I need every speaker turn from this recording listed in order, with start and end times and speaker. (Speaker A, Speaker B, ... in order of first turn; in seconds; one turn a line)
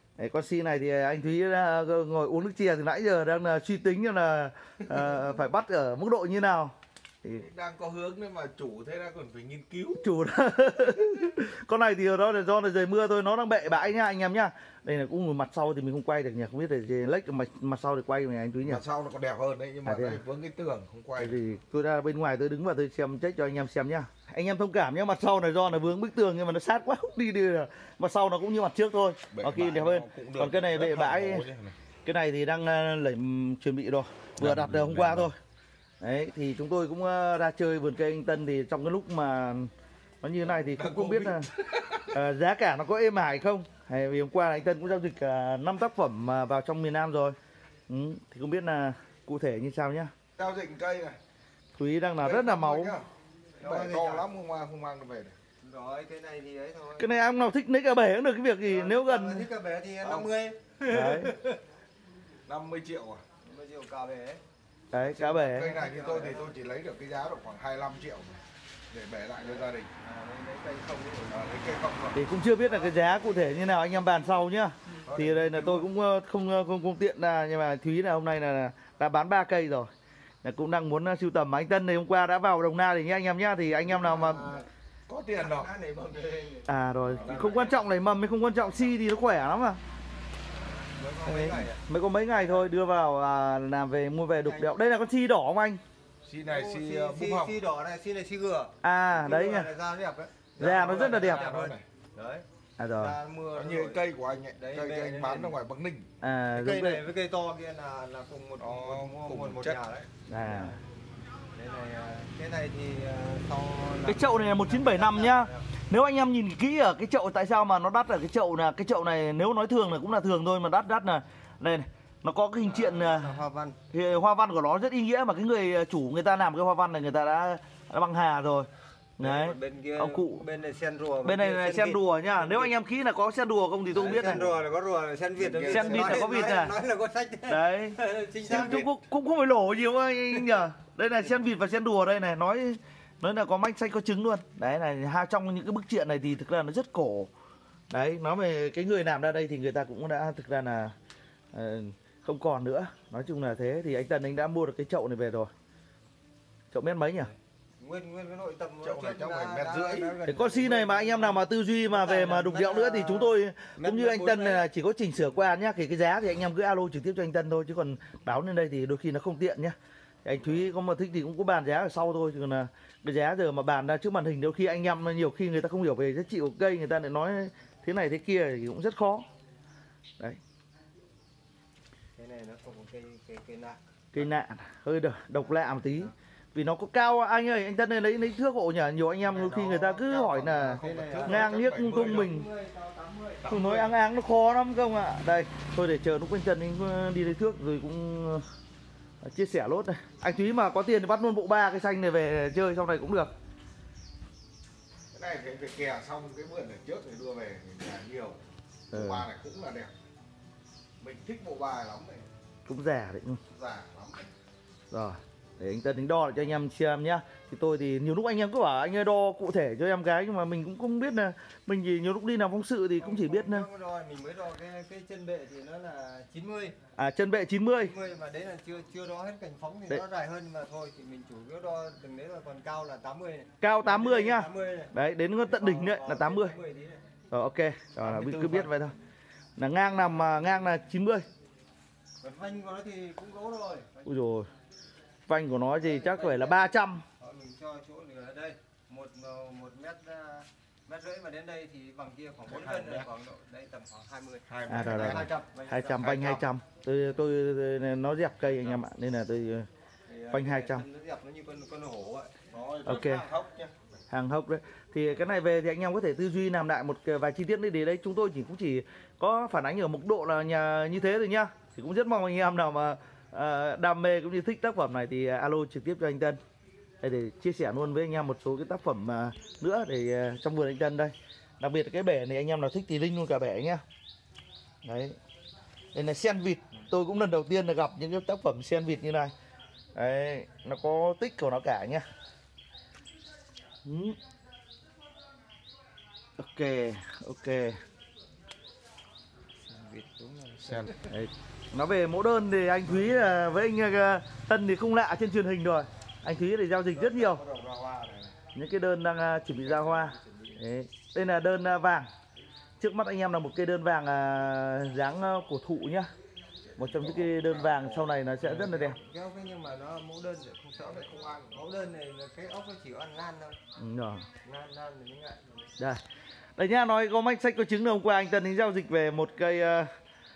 Speaker A: 0.2-7.5
Speaker B: 7.3-10.0
Speaker A: 10.0-18.8
Speaker B: 18.6-21.4
Speaker A: 19.8-20.2
Speaker A: 21.2-31.5
Speaker B: 29.3-31.8
Speaker A: 32.0-35.4
Speaker B: 34.3-35.3
Speaker A: 36.0-39.7
Speaker A: 40.2-41.5
Speaker B: 40.4-42.2
Speaker A: 42.1-47.4
Speaker A: 47.9-50.1
Speaker B: 50.4-51.2
Speaker A: 51.8-53.0
Speaker B: 52.2-53.1
Speaker C: 53.6-54.3
Speaker B: 53.6-55.4
Speaker C: 55.6-57.1
Speaker A: 57.0-59.5
Speaker C: 58.6-61.6
Speaker B: 60.0-60.3
Speaker A: 60.9-61.3
Speaker B: 62.5-63.2
Speaker C: 63.4-64.4
Speaker A: 64.9-65.7
Speaker B: 65.0-69.9
Speaker C: 65.4-66.5
Speaker C: 69.4-71.8
Speaker B: 71.3-72.2
Speaker A: 72.1-79.9
Speaker C: 72.5-74.5
Speaker B: 75.1-75.9
Speaker A: 80.4-84.5
Speaker C: 83.8-84.7
Speaker B: 85.1-85.7
Speaker C: 85.4-87.7
Speaker A: 86.7-89.8
Speaker B: 87.1-87.8
Speaker C: 90.8-91.8
Speaker A: 91.2-95.8
Speaker C: 94.4-94.7
Speaker B: 96.2-97.6
Speaker C: 96.5-102.4
Speaker A: 98.8-99.7
Speaker A: 100.6-101.5
Speaker B: 100.6-101.8
Speaker A: 102.8-103.2
Speaker C: 103.0-104.0
Speaker B: 103.5-106.1
Speaker C: 104.5-105.6
Speaker A: 106.2-107.0
Speaker C: 106.5-110.8
Speaker B: 108.6-109.8
Speaker A: 110.3-110.8
Speaker C: 111.5-115.7
Speaker A: 114.0-123.4
Speaker C: 122.6-123.8
Speaker A: 123.9-130.4
Speaker C: 129.2-132.7
Speaker A: 131.2-134.4
Speaker B: 133.9-134.6
Speaker C: 133.9-138.8
Speaker B: 135.3-136.4
Speaker A: 135.7-136.7
Speaker A: 137.5-147.3
Speaker B: 138.4-138.9
Speaker A: 147.9-150.9
Speaker A: 151.5-155.5
Speaker A: 156.7-157.3
Speaker C: 157.2-164.6
Speaker B: 158.8-160.2
Speaker A: 160.2-179.2
Speaker C: 182.2-183.8
Speaker A: 184.1-192.4
Speaker C: 185.6-186.1
Speaker B: 189.3-192.3
Speaker C: 190.8-193.8
Speaker B: 193.4-193.9
Speaker A: 193.5-198.4
Speaker A: 199.2-203.3
Speaker B: 205.1-209.9
Speaker A: 208.9-209.3
Speaker B: 211.0-212.2
Speaker A: 212.7-213.4
Speaker B: 213.5-214.3
Speaker A: 214.9-223.7
Speaker C: 223.0-226.8
Speaker A: 226.9-227.9
Speaker C: 227.8-234.9
Speaker A: 233.6-236.5
Speaker C: 235.5-237.0
Speaker A: 237.3-238.9
Speaker C: 238.0-238.7
Speaker B: 238.2-238.6
Speaker A: 239.6-241.2
Speaker C: 242.2-244.1
Speaker A: 244.0-244.5
Speaker A: 245.3-247.0
Speaker C: 245.8-256.4
Speaker B: 252.4-253.1
Speaker B: 254.5-255.4
Speaker A: 254.7-259.7
Speaker C: 260.1-262.4
Speaker A: 260.3-260.8
Speaker B: 262.5-263.8
Speaker A: 262.8-263.2
Speaker A: 264.1-276.4
Speaker A: 277.0-283.8
Speaker A: 284.8-285.2
Speaker A: 285.9-289.3
Speaker A: 289.9-292.0
Speaker A: 293.8-294.2
Speaker A: 296.4-297.8
Speaker C: 299.6-301.1
Speaker B: 300.6-300.9
Speaker A: 301.1-307.4
Speaker C: 306.9-308.4
Speaker A: 308.5-312.1
Speaker C: 309.9-310.6
Speaker A: 312.8-316.1
Speaker B: 316.7-318.2
Speaker A: 316.8-319.0
Speaker C: 318.4-323.6
Speaker B: 320.8-321.6
Speaker A: 323.8-324.2
Speaker C: 324.4-325.7
Speaker A: 326.6-329.9